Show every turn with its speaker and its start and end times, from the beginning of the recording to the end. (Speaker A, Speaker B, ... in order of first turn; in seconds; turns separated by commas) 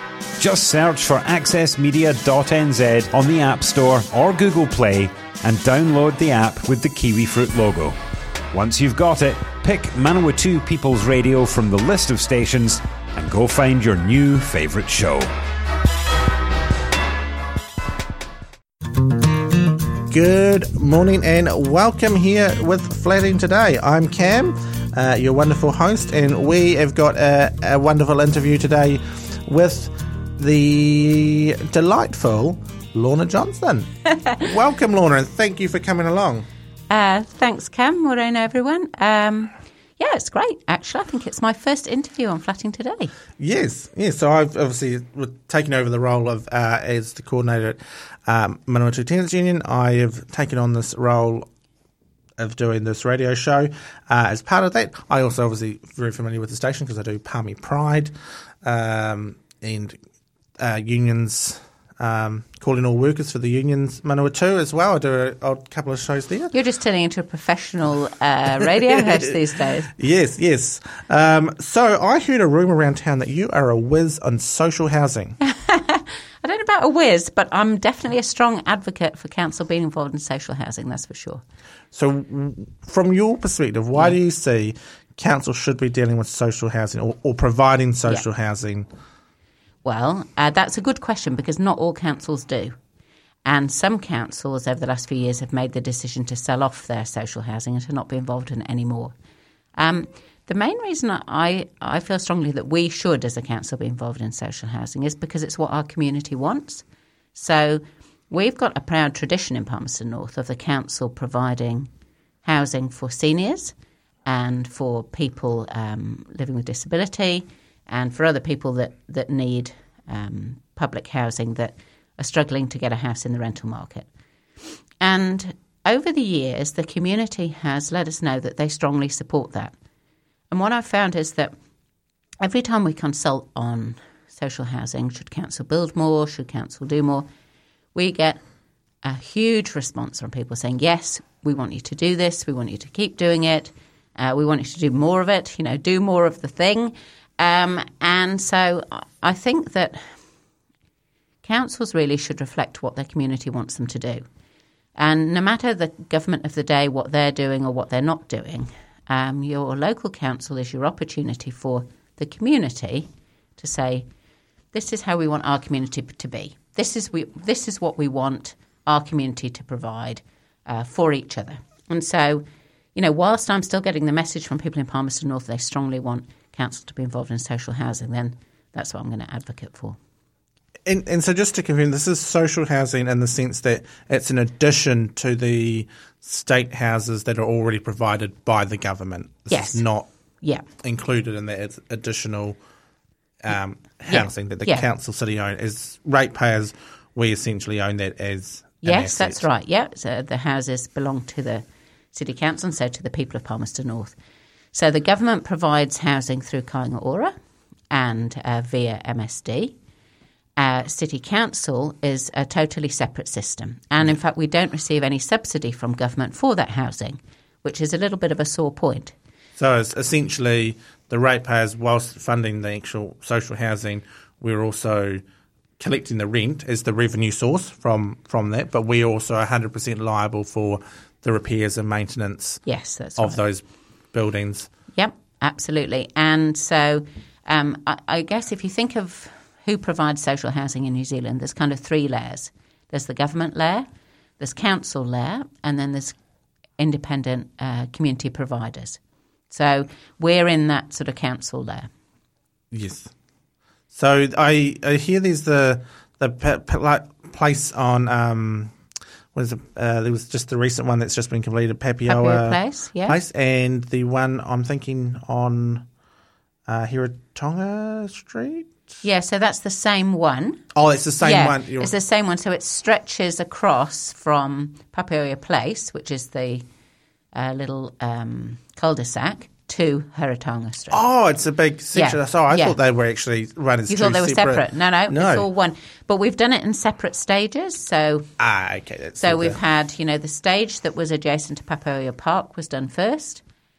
Speaker A: 0.4-8.0, Speaker A: 8.5-15.3, Speaker B: 19.9-36.5, Speaker C: 36.9-43.1, Speaker B: 43.4-51.5, Speaker B: 52.4-60.0, Speaker B: 60.6-66.5, Speaker C: 66.5-69.9, Speaker B: 68.6-69.3, Speaker B: 69.9-75.4, Speaker C: 75.4-81.4, Speaker B: 81.9-88.9, Speaker C: 89.8-92.8, Speaker C: 93.4-99.1, Speaker C: 99.8-106.8, Speaker C: 107.3-111.9, Speaker C: 112.4-113.7, Speaker C: 114.2-124.1, Speaker C: 125.0-129.7, Speaker C: 130.5-131.5, Speaker C: 132.4-137.3, Speaker C: 137.9-138.4, Speaker C: 139.0-150.2, Speaker C: 151.4-154.2, Speaker C: 155.0-164.1, Speaker C: 164.7-180.0, Speaker B: 180.8-190.1, Speaker C: 189.5-189.8, Speaker B: 190.7-192.6, Speaker B: 193.4-199.4, Speaker C: 194.1-194.8, Speaker C: 198.8-204.1, Speaker C: 204.7-207.3, Speaker C: 207.9-209.7, Speaker C: 210.6-219.1, Speaker B: 219.6-225.2, Speaker B: 225.8-232.6, Speaker C: 232.6-233.4, Speaker B: 233.2-234.7, Speaker C: 234.9-243.9, Speaker C: 244.4-246.2, Speaker C: 246.8-249.0, Speaker C: 249.5-251.9, Speaker B: 252.7-253.1, Speaker B: 253.9-258.8, Speaker B: 259.3-265.9, Speaker C: 262.1-263.2, Speaker B: 266.7-268.9, Speaker C: 269.0-270.6, Speaker B: 270.7-271.9, Speaker C: 271.2-276.6, Speaker C: 277.3-281.0, Speaker B: 280.9-285.4, Speaker C: 281.9-282.8, Speaker C: 283.9-288.3, Speaker B: 288.4-289.6, Speaker C: 289.2-293.4